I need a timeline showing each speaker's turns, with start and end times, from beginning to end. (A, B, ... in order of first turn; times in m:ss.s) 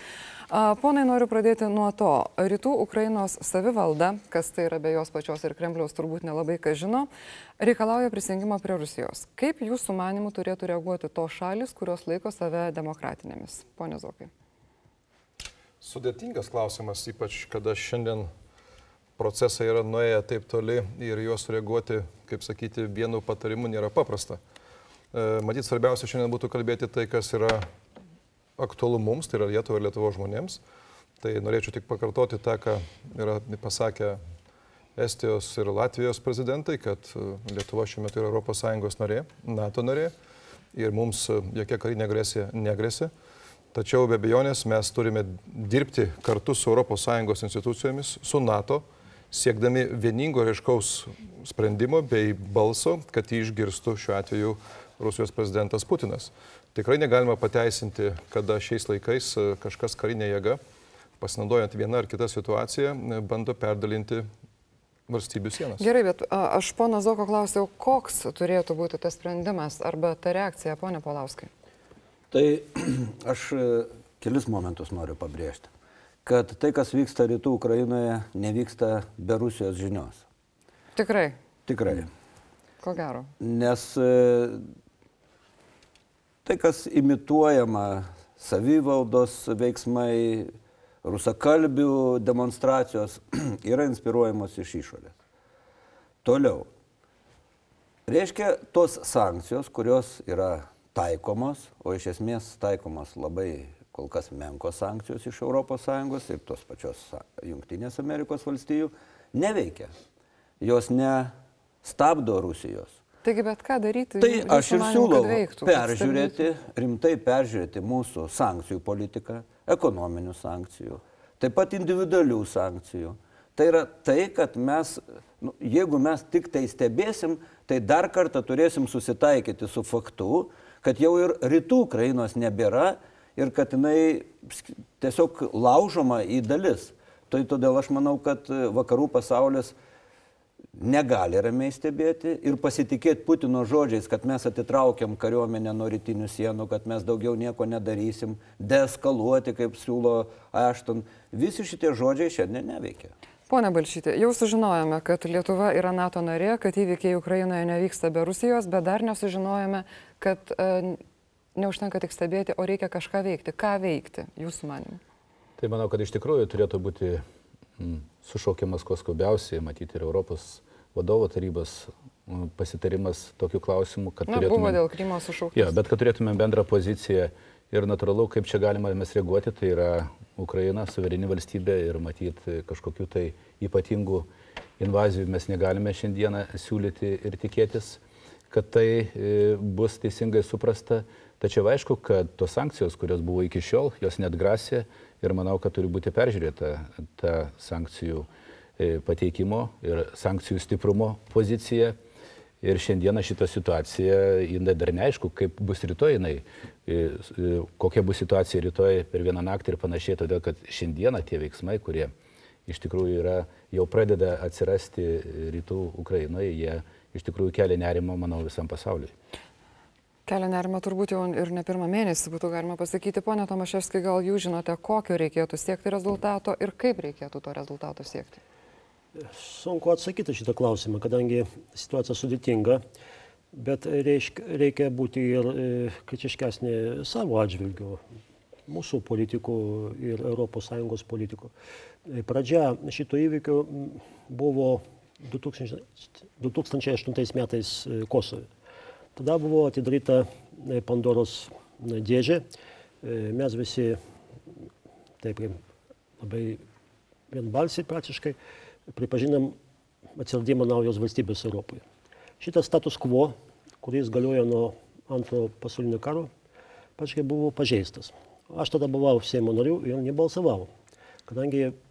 0:00.5-0:14.3 A
0:15.8-0:18.3 B
0:19.2-0:24.4 B
0:25.1-0:27.7 B
0:28.6-0:30.6 B
0:31.2-0:34.2 B
0:35.0-0:40.1 B
0:40.7-0:43.1 B
0:43.7-1:00.6 B
1:01.2-1:04.3 B
1:05.1-1:05.9 B
1:05.8-1:11.5 A
1:12.3-1:15.7 C
1:16.2-1:20.2 C
1:21.0-1:21.4 A
1:21.7-1:22.1 C
1:22.8-1:23.3 A
1:23.4-1:24.6 C
1:26.4-1:30.5 C
1:31.0-1:35.1 C
1:36.2-1:36.7 C
1:38.1-1:49.9 C
1:50.6-1:53.0 C
1:53.2-1:56.4 A
1:54.2-2:19.8 C
2:20.8-2:33.1 C
2:33.5-2:41.0 A
2:41.6-2:45.0 A
2:45.6-2:47.2 D
2:47.8-2:54.8 D
2:54.3-2:55.8 A
2:55.5-3:04.3 D
3:04.8-3:18.3 D
3:18.8-3:22.0 D
3:22.6-3:32.1 D
3:32.7-3:39.1 D
3:40.3-3:48.4 A
3:49.2-3:52.8 E
3:53.5-3:58.0 E
3:58.7-4:01.5 E
4:02.1-4:08.5 E
4:09.2-4:12.4 E
4:13.0-4:14.0 E
4:15.2-4:15.6 E
4:16.2-4:16.6 E
4:17.3-4:18.4 E
4:18.9-4:19.6 E
4:20.2-4:21.8 E
4:22.4-4:26.3 E
4:27.0-4:30.7 E
4:31.3-4:31.8 E